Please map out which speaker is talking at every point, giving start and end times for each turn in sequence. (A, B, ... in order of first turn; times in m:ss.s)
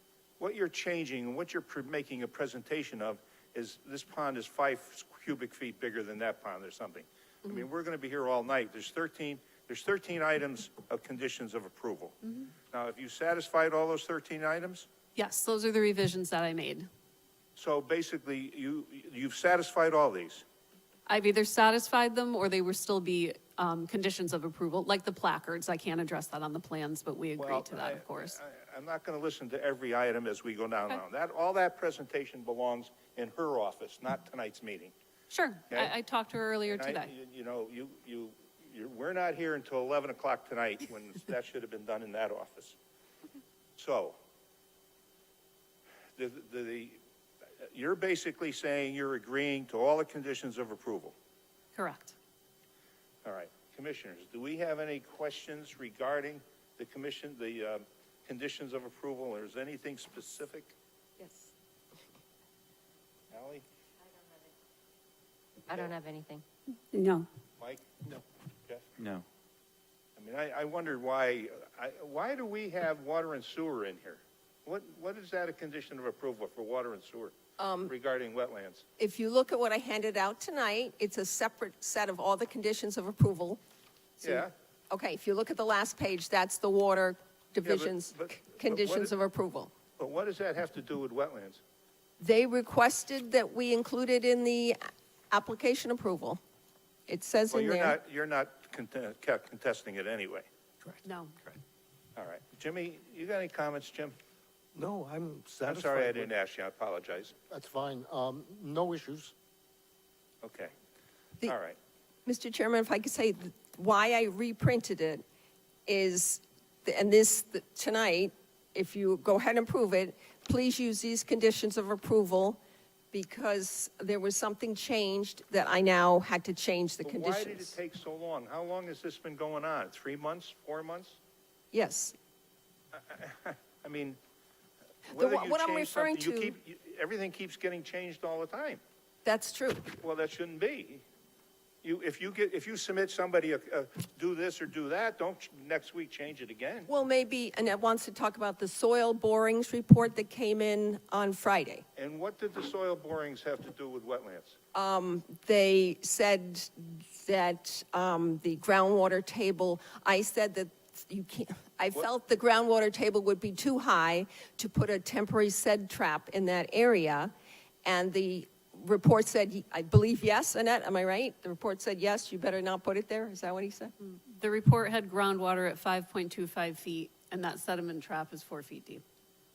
0:00.4-0:12.1 A
0:12.7-0:14.9 A
0:15.1-0:16.9 B
0:17.6-0:20.4 A
0:21.1-0:28.4 B
0:27.4-0:34.9 A
0:35.3-0:37.1 B
0:36.7-0:42.8 A
0:43.8-0:44.2 A
0:46.2-0:47.0 A
0:47.6-0:51.1 A
0:51.7-0:52.1 B
0:53.2-1:00.7 A
1:01.2-1:01.5 C
1:03.3-1:03.6 A
1:05.7-1:06.4 C
1:07.6-1:08.9 A
1:10.2-1:17.3 A
1:17.6-1:17.9 C
1:17.9-1:18.8 A
1:19.0-1:23.6 C
1:24.2-1:29.7 C
1:24.2-1:24.5 A
1:27.6-1:29.1 A
1:30.0-1:31.6 A
1:32.2-1:34.8 C
1:35.3-1:36.4 C
1:37.1-1:38.0 C
1:37.5-1:40.4 A
1:41.0-1:41.4 B
1:42.2-1:44.2 A
1:44.7-1:46.3 D
1:45.6-1:47.4 A
1:47.5-1:49.3 D
1:50.4-1:50.7 A
1:51.4-1:51.8 A
1:52.2-1:55.2 C
1:55.9-2:02.6 C
2:03.1-2:07.7 C
2:07.0-2:11.2 A
2:11.7-2:12.1 C
2:12.9-2:14.2 A
2:15.1-2:18.8 A
2:15.1-2:16.6 C
2:19.2-2:19.9 C
2:20.0-2:21.0 A
2:21.8-2:26.9 A
2:26.9-2:31.8 C
2:32.0-2:34.6 A
2:34.7-2:47.3 C
2:47.8-2:53.9 C
2:54.2-2:59.0 B